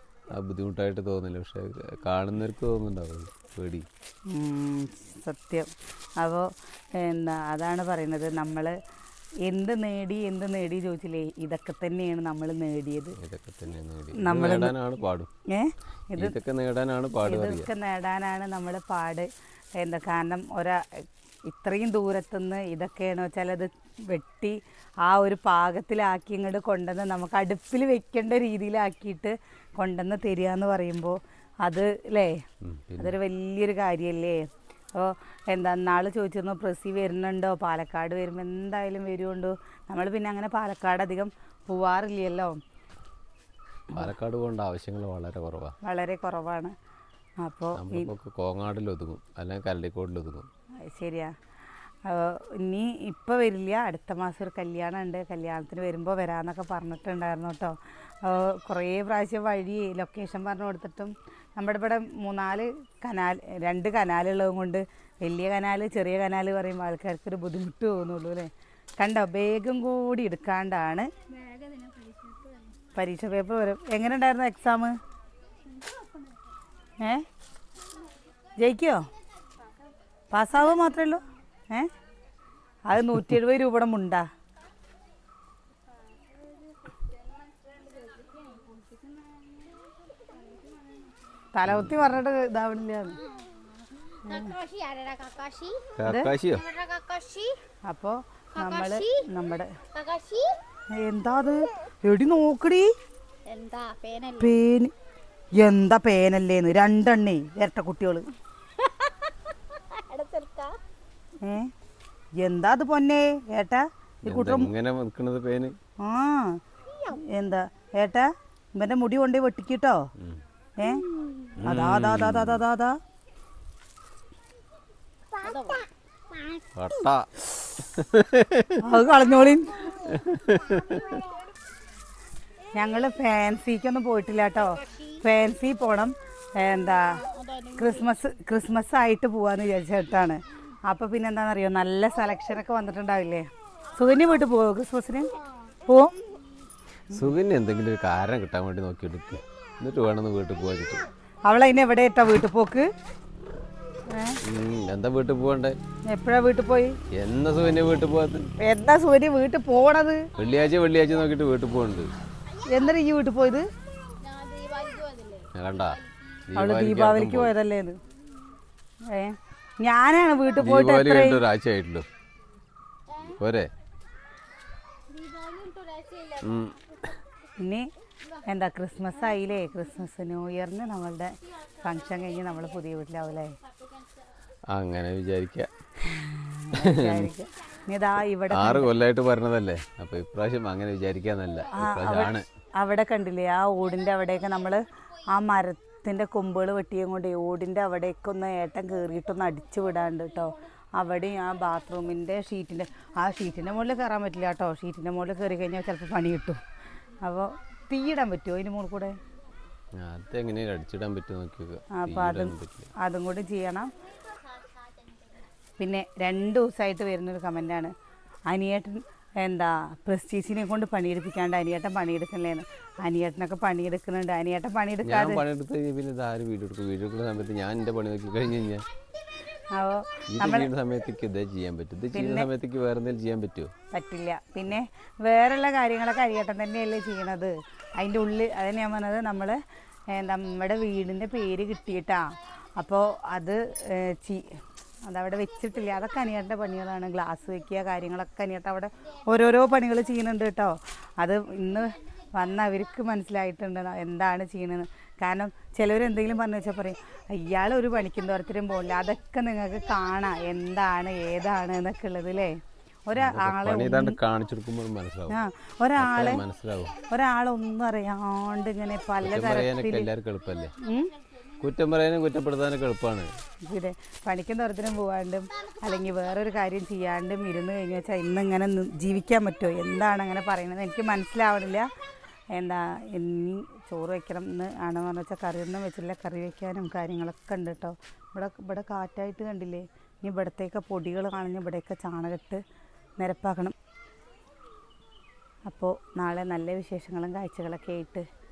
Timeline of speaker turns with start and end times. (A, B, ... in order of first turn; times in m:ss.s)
0:00.3-0:03.9 A
0:04.3-0:08.7 B
0:09.5-0:13.2 B
0:13.2-0:15.3 A
0:14.2-0:14.7 B
0:15.5-0:16.3 B
0:16.2-0:17.7 A
0:17.2-0:19.3 B
0:19.8-0:20.8 B
0:21.4-0:32.4 B
0:32.6-0:33.2 A
0:33.0-0:34.4 B
0:35.0-0:42.6 B
0:43.9-0:45.7 A
0:45.8-0:46.7 B
0:47.4-0:48.1 B
0:47.8-0:50.5 A
0:50.9-0:51.3 B
0:52.0-1:11.1 B
1:11.3-1:12.8 C
1:12.9-1:15.0 B
1:15.6-1:16.4 C
1:17.0-1:17.3 B
1:18.0-1:18.5 C
1:18.6-1:19.1 B
1:20.3-1:21.9 B
1:22.8-1:24.3 B
1:26.2-1:31.2 C
1:31.5-1:33.2 B
1:31.7-1:32.0 A
1:33.2-1:35.9 C
1:36.0-1:36.6 A
1:36.5-1:37.6 C
1:37.9-1:39.7 B
1:38.6-1:39.2 C
1:39.9-1:40.6 C
1:41.0-1:42.9 B
1:43.5-1:44.6 C
1:44.4-1:44.9 B
1:45.6-1:48.3 B
1:48.8-1:49.3 C
1:49.9-1:50.8 C
1:51.4-1:51.7 B
1:52.4-1:54.7 B
1:54.2-1:55.8 A
1:56.0-2:00.1 B
2:00.8-2:01.0 B
2:01.6-2:02.6 A
2:01.6-2:03.0 B
2:05.4-2:05.8 C
2:06.8-2:08.8 A
2:08.8-2:09.9 B
2:10.0-2:11.2 A
2:12.8-2:17.2 B
2:17.0-2:18.1 C
2:17.8-2:25.3 B
2:25.9-2:26.2 B
2:27.1-2:31.1 A
2:31.5-2:32.9 B
2:34.1-2:34.4 B
2:34.4-2:35.8 A
2:36.1-2:37.0 B
2:37.2-2:38.5 A
2:38.6-2:40.2 B
2:40.4-2:42.1 A
2:42.7-2:43.7 B
2:44.2-2:46.4 C
2:45.6-2:46.0 A
2:46.5-2:47.5 A
2:46.6-2:48.0 B
2:49.1-2:51.4 B
2:50.6-2:52.1 A
2:53.2-2:53.7 A
2:55.1-2:56.5 C
2:56.4-2:56.8 A
2:57.6-2:57.9 B
2:58.5-3:03.6 B
3:03.6-3:04.2 C
3:04.7-3:05.7 A
3:06.1-3:08.9 B
3:06.8-3:07.3 A
3:08.5-3:12.5 A
3:11.7-3:26.6 B
3:27.2-3:29.1 B
3:30.0-3:32.9 A
3:32.0-3:33.9 B
3:34.1-3:35.3 C
3:35.8-3:37.9 B
3:38.5-3:45.4 B
3:45.0-3:48.9 A
3:49.7-3:50.7 B
3:50.3-3:53.7 A
3:52.1-3:52.5 B
3:53.9-3:59.6 B
4:00.1-4:22.6 B
4:23.1-4:24.2 B
4:23.2-4:25.4 A
4:25.3-4:26.4 B
4:26.0-4:27.0 A
4:27.1-4:30.1 B
4:29.2-4:30.8 A
4:30.7-4:31.5 C
4:30.8-4:31.1 B
4:31.6-4:33.3 A
4:33.7-4:41.9 B
4:42.6-4:52.6 B
4:53.2-4:53.7 B
4:55.7-4:58.2 B